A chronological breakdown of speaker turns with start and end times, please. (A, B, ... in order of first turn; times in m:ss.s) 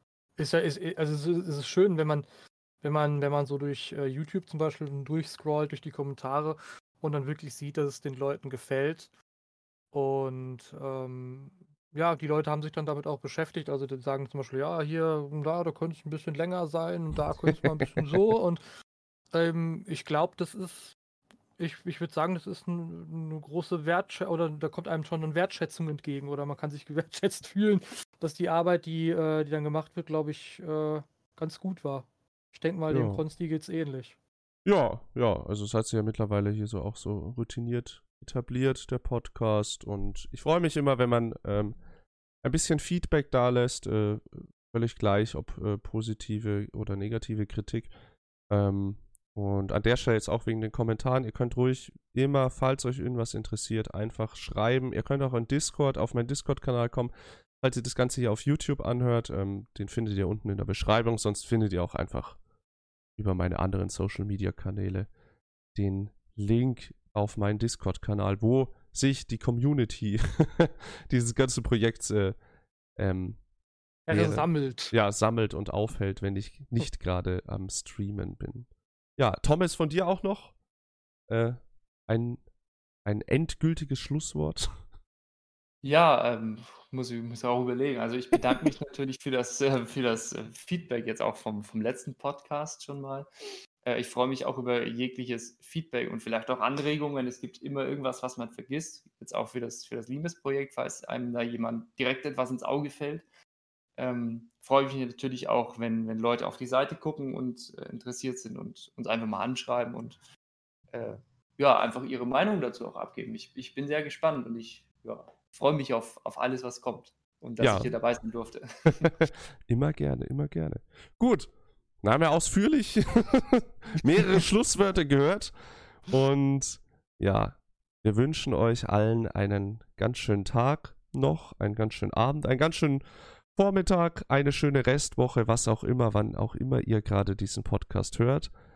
0:00.4-0:02.3 A
0:02.8-0:09.1 A
0:09.9-0:18.6 A
0:19.3-0:21.0 A
0:21.6-0:34.2 A
0:32.9-0:33.2 B
0:34.6-0:41.8 B
0:42.4-0:47.9 B
0:48.5-1:02.4 B
1:03.2-1:05.1 B
1:05.8-1:12.4 B
1:13.0-1:13.4 B
1:14.1-1:14.9 A
1:14.1-1:20.5 B
1:21.3-1:22.4 B
1:23.0-1:24.7 B
1:25.8-1:33.3 C
1:33.8-1:43.3 C
1:44.0-1:50.2 C
1:50.9-1:59.1 C
1:57.6-1:57.9 B
1:59.0-2:01.5 B
2:02.0-2:13.0 B
2:13.6-2:18.5 B